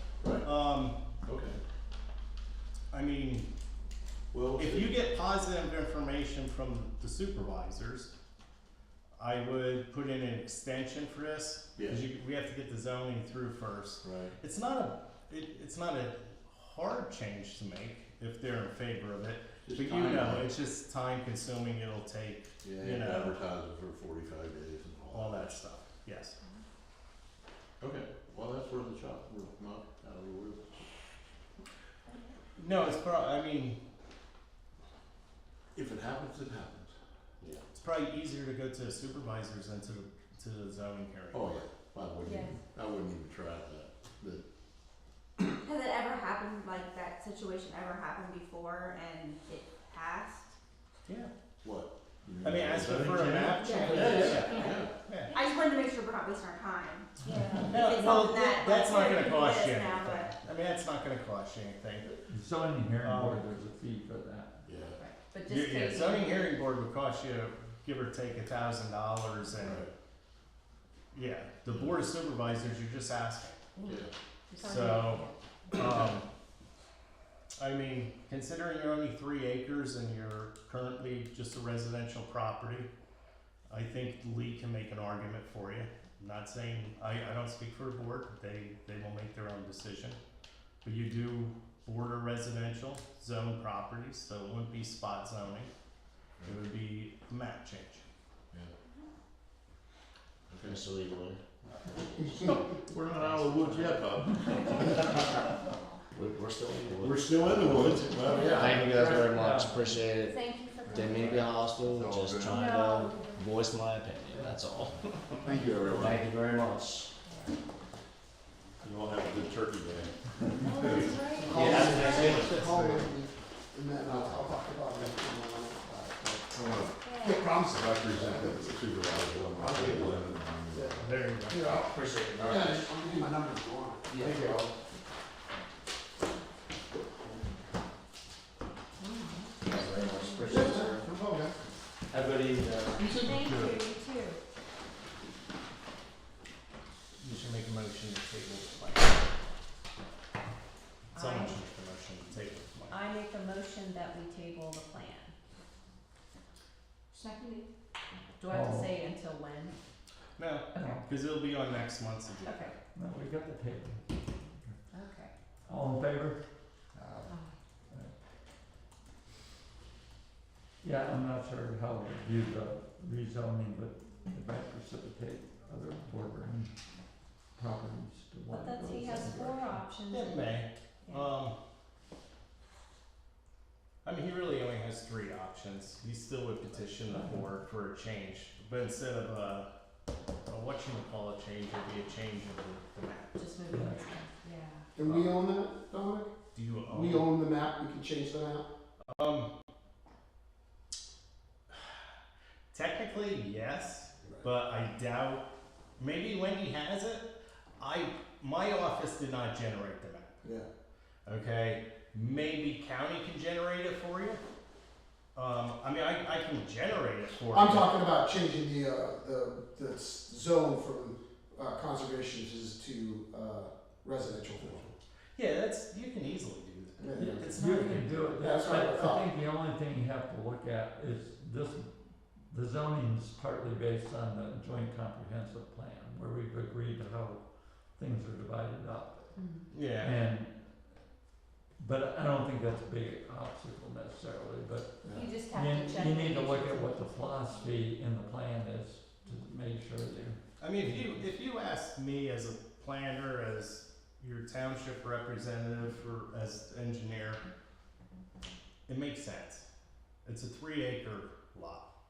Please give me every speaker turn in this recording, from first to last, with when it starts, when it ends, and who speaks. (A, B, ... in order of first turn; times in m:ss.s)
0:00.2-0:00.5 A
0:00.4-0:01.0 B
0:01.2-0:01.6 A
0:02.9-0:03.5 B
0:04.3-0:05.0 A
0:04.6-0:08.1 B
0:09.2-0:23.4 B
0:14.0-0:14.3 A
0:19.6-0:20.5 A
0:22.6-0:25.6 A
0:25.1-0:26.4 B
0:27.8-0:30.8 A
0:32.6-0:33.8 B
0:35.8-0:37.6 A
0:37.7-0:41.7 B
0:41.3-0:44.4 A
0:42.2-0:42.5 C
0:45.6-0:50.5 D
0:51.1-0:51.3 B
0:51.6-0:54.9 A
0:52.4-0:55.3 B
0:53.1-0:53.8 E
0:53.6-1:00.3 D
0:57.7-1:02.1 B
1:02.1-1:04.6 E
1:03.0-1:03.4 B
1:04.7-1:05.0 A
1:05.0-1:06.3 C
1:05.4-1:09.9 B
1:05.8-1:06.3 D
1:09.5-1:09.9 A
1:11.1-1:13.6 B
1:14.6-1:15.3 C
1:14.6-1:16.2 B
1:17.6-1:22.9 B
1:23.7-1:30.2 B
1:30.8-1:35.7 B
1:36.4-1:38.0 B
1:40.5-1:40.8 A
1:40.6-1:41.4 F
1:42.3-1:45.3 A
1:43.2-1:43.8 F
1:44.5-1:45.6 C
1:46.1-1:55.0 F
1:46.9-1:49.0 A
1:48.1-1:48.6 C
1:48.9-1:49.9 E
1:50.2-1:53.5 C
1:52.2-1:52.6 A
1:55.4-1:56.2 A
1:55.8-1:57.1 F
1:57.2-1:57.5 C
1:58.8-2:01.2 A
2:00.6-2:02.4 C
2:01.2-2:08.9 G
2:01.5-2:03.0 F
2:06.6-2:06.9 A
2:07.0-2:07.6 C
2:07.7-2:11.0 A
2:09.6-2:10.2 F
2:10.7-2:14.6 G
2:11.0-2:11.9 B
2:11.7-2:12.8 F
2:14.1-2:14.7 F
2:19.0-2:20.6 C
2:19.6-2:21.1 F
2:20.5-2:21.5 G
2:22.1-2:23.4 F
2:23.0-2:24.4 C
2:27.2-2:29.2 B
2:31.1-2:33.0 B
2:31.1-2:31.6 C
2:32.9-2:35.3 C
2:37.1-2:37.7 C
2:38.4-2:39.8 C
2:38.5-2:38.9 E
2:40.4-2:42.7 B
2:40.7-2:41.0 E
2:42.4-2:42.8 C
2:42.9-2:44.0 E
2:44.9-2:45.3 C
2:45.7-2:46.4 E
2:46.9-2:47.3 E
2:50.8-2:56.7 E
2:57.6-2:59.8 E
2:58.5-3:01.3 C
3:00.1-3:01.6 B
3:04.0-3:09.7 B
3:07.1-3:07.5 E
3:10.5-3:13.3 B
3:13.3-3:14.8 C
3:13.7-3:14.0 E
3:14.9-3:16.3 G
3:15.0-3:15.4 B
3:16.5-3:17.3 B
3:16.9-3:18.7 G
3:19.1-3:19.5 B
3:22.7-3:25.4 B
3:24.2-3:24.5 G
3:26.0-3:30.4 B
3:31.2-3:34.4 B
3:35.3-3:37.9 B
3:37.5-3:44.9 G
3:45.4-3:48.0 B
3:47.0-3:47.6 G
3:47.5-3:51.9 E
3:47.6-3:48.1 C
3:48.4-3:49.3 G
3:52.5-3:59.3 E
3:59.4-3:59.7 C
3:59.7-4:00.2 B
4:00.0-4:00.7 E
4:01.8-4:11.2 E
4:05.0-4:07.0 C
4:10.6-4:17.4 B
4:18.9-4:19.7 B
4:20.2-4:21.9 B